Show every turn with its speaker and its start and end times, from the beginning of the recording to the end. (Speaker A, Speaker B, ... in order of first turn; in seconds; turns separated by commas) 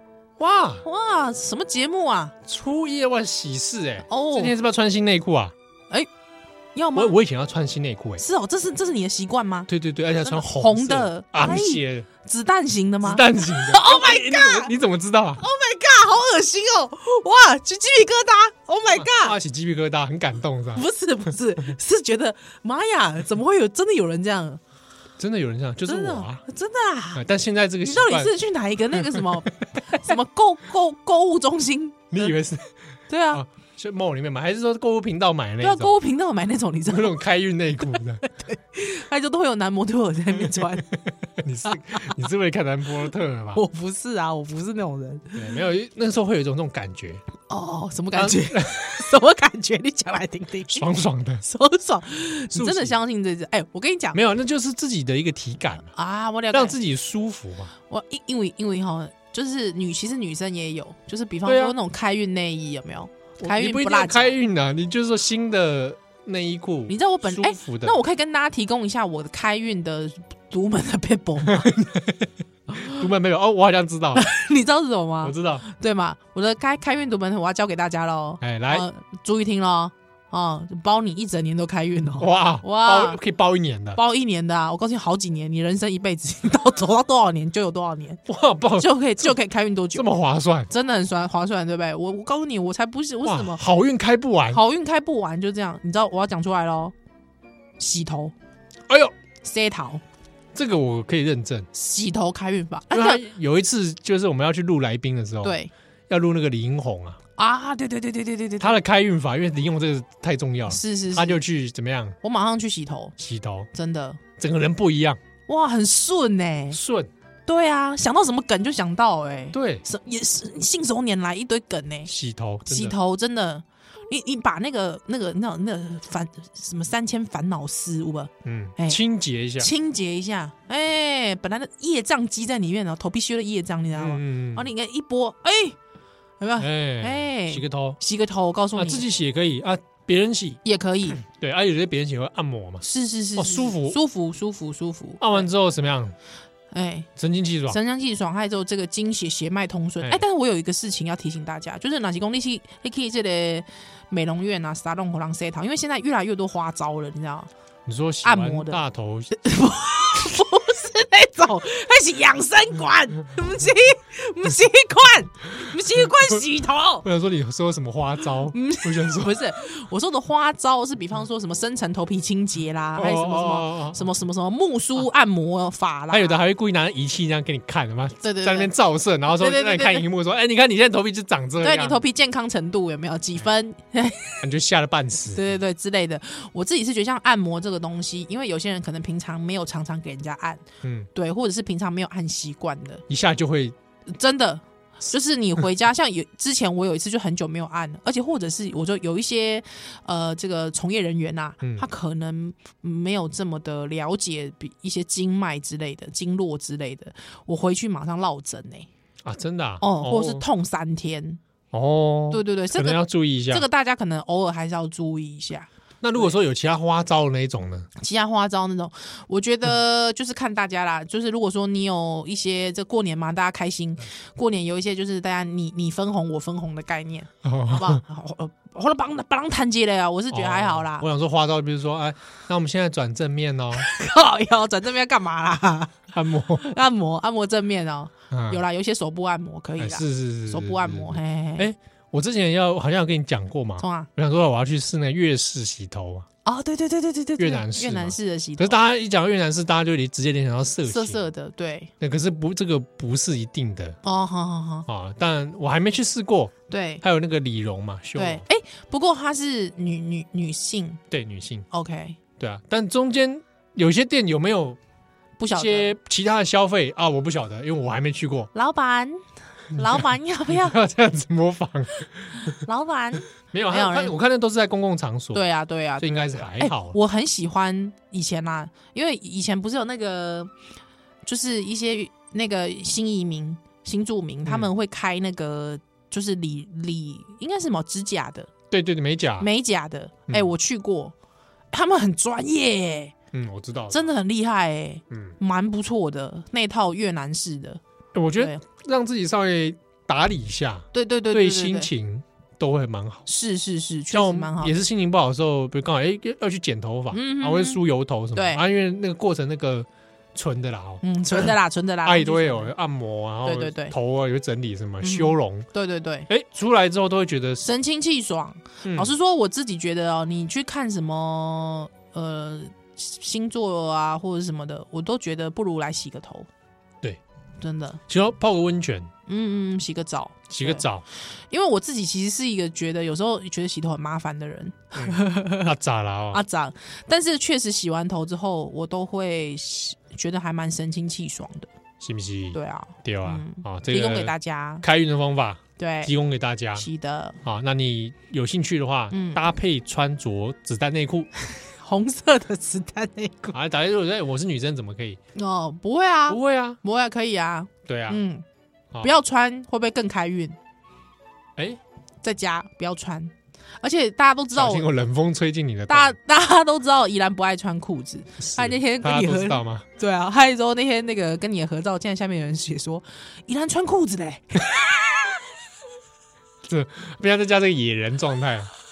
Speaker A: 0.4-0.8, Speaker B: 0.8-2.3, Speaker A: 2.5-5.5, Speaker B: 4.1-4.5, Speaker B: 6.8-7.1, Speaker A: 7.0-8.2, Speaker B: 8.2-9.7, Speaker A: 9.7-12.1, Speaker B: 10.2-14.7, Speaker A: 13.0-15.4, Speaker B: 15.4-19.4, Speaker A: 18.9-20.9, Speaker B: 20.7-24.6, Speaker A: 25.2-26.4, Speaker B: 25.9-27.2, Speaker A: 27.1-28.3, Speaker B: 27.8-32.3, Speaker A: 28.9-29.4, Speaker A: 32.1-32.7, Speaker B: 33.1-33.4, Speaker A: 33.3-36.0, Speaker B: 35.6-37.2, Speaker A: 36.9-38.2, Speaker B: 37.8-40.9, Speaker A: 40.4-43.6, Speaker B: 41.7-42.1, Speaker B: 43.5-45.6, Speaker A: 45.4-47.2, Speaker B: 47.5-50.9, Speaker A: 48.2-49.1, Speaker A: 50.7-51.4, Speaker B: 51.4-54.2, Speaker A: 52.5-53.0, Speaker A: 54.1-55.9, Speaker B: 55.9-56.8, Speaker A: 56.5-57.7, Speaker B: 57.9-64.4, Speaker A: 61.5-61.8, Speaker A: 63.4-68.0, Speaker B: 66.9-71.7, Speaker A: 71.5-72.3, Speaker B: 72.7-73.0, Speaker A: 72.8-74.3, Speaker B: 74.2-83.2, Speaker A: 75.2-75.7, Speaker A: 78.4-78.9, Speaker A: 82.2-84.0, Speaker B: 83.9-88.2, Speaker A: 88.3-88.9, Speaker B: 88.8-90.1, Speaker A: 90.0-90.7, Speaker B: 90.7-93.6, Speaker A: 93.2-94.6, Speaker B: 94.5-96.9, Speaker B: 97.8-98.3, Speaker B: 99.4-100.0, Speaker A: 100.5-101.7, Speaker B: 101.7-103.2, Speaker A: 102.9-105.6, Speaker B: 105.4-105.7, Speaker A: 106.1-107.2, Speaker B: 107.4-108.8, Speaker A: 108.6-112.2, Speaker B: 110.7-111.4, Speaker B: 112.2-113.2, Speaker A: 113.2-113.7, Speaker B: 113.7-114.2, Speaker A: 114.4-115.2, Speaker B: 115.5-116.8, Speaker A: 116.7-117.1, Speaker B: 117.5-122.1, Speaker A: 119.5-119.8, Speaker A: 122.1-123.0, Speaker B: 122.7-129.0, Speaker A: 128.4-129.7, Speaker B: 129.6-135.8, Speaker A: 134.0-134.7, Speaker B: 136.4-139.1, Speaker A: 136.6-138.0, Speaker A: 138.8-140.6, Speaker B: 140.6-141.2, Speaker A: 141.2-142.8, Speaker B: 142.8-145.5, Speaker A: 143.4-144.0, Speaker A: 145.2-146.2, Speaker B: 146.7-147.1, Speaker A: 147.2-147.8, Speaker B: 147.7-157.5, Speaker A: 157.9-159.4, Speaker B: 158.2-158.8, Speaker B: 159.3-167.1, Speaker A: 166.0-166.3, Speaker A: 167.0-169.4, Speaker B: 168.5-176.4, Speaker A: 173.0-174.0, Speaker A: 176.1-182.0, Speaker B: 178.2-178.7, Speaker B: 179.3-180.1, Speaker B: 181.6-184.4, Speaker A: 184.4-185.4, Speaker B: 185.3-193.0, Speaker A: 190.8-191.1, Speaker A: 193.1-193.8, Speaker B: 194.1-208.9, Speaker A: 201.6-201.9, Speaker A: 209.2-210.5, Speaker B: 209.8-211.4, Speaker A: 211.7-213.7, Speaker B: 212.3-216.3, Speaker A: 216.0-217.9, Speaker B: 218.0-231.1, Speaker A: 227.4-228.0, Speaker A: 230.3-233.9, Speaker B: 233.7-241.7, Speaker A: 236.1-236.6, Speaker A: 238.3-238.6, Speaker A: 239.8-246.3, Speaker B: 243.8-244.1, Speaker B: 246.4-248.8, Speaker A: 247.4-251.2, Speaker B: 250.8-251.9, Speaker A: 252.0-254.0, Speaker B: 254.0-254.9, Speaker A: 254.9-258.4, Speaker B: 256.7-257.0, Speaker B: 258.2-261.0, Speaker A: 261.1-261.7, Speaker B: 261.7-262.2, Speaker A: 262.4-264.8, Speaker B: 265.4-265.9, Speaker A: 265.5-268.5, Speaker B: 268.5-270.8, Speaker A: 269.8-272.6, Speaker B: 272.6-274.2, Speaker A: 273.5-275.4, Speaker B: 275.3-280.5, Speaker A: 276.0-277.0, Speaker B: 281.2-288.5, Speaker A: 288.7-289.5, Speaker B: 289.4-291.1, Speaker B: 291.7-293.1, Speaker A: 293.3-294.1, Speaker B: 293.9-297.8, Speaker A: 295.1-295.4, Speaker A: 298.1-303.3, Speaker B: 298.4-298.6, Speaker B: 300.9-301.9, Speaker B: 303.3-304.8, Speaker A: 304.1-311.5, Speaker B: 307.1-307.8, Speaker B: 308.3-308.6, Speaker B: 311.0-312.7, Speaker A: 312.1-315.7, Speaker B: 313.4-313.9, Speaker B: 315.0-316.3, Speaker A: 316.3-317.7, Speaker B: 317.6-326.5, Speaker A: 318.8-319.1, Speaker B: 327.6-328.0, Speaker A: 328.1-329.1, Speaker B: 329.3-335.7, Speaker A: 330.5-331.0, Speaker A: 334.9-336.4, Speaker B: 336.3-341.7, Speaker A: 342.0-346.9, Speaker B: 342.5-344.9, Speaker B: 345.8-346.1, Speaker B: 346.8-347.4, Speaker A: 347.4-351.3, Speaker B: 349.1-349.4, Speaker B: 351.4-353.5, Speaker A: 353.5-355.2, Speaker B: 355.4-358.4, Speaker A: 356.3-356.8, Speaker A: 357.9-358.2, Speaker B: 359.0-360.6, Speaker B: 362.2-364.9, Speaker A: 364.5-366.2, Speaker B: 365.9-375.3, Speaker A: 368.4-369.9, Speaker A: 376.7-378.7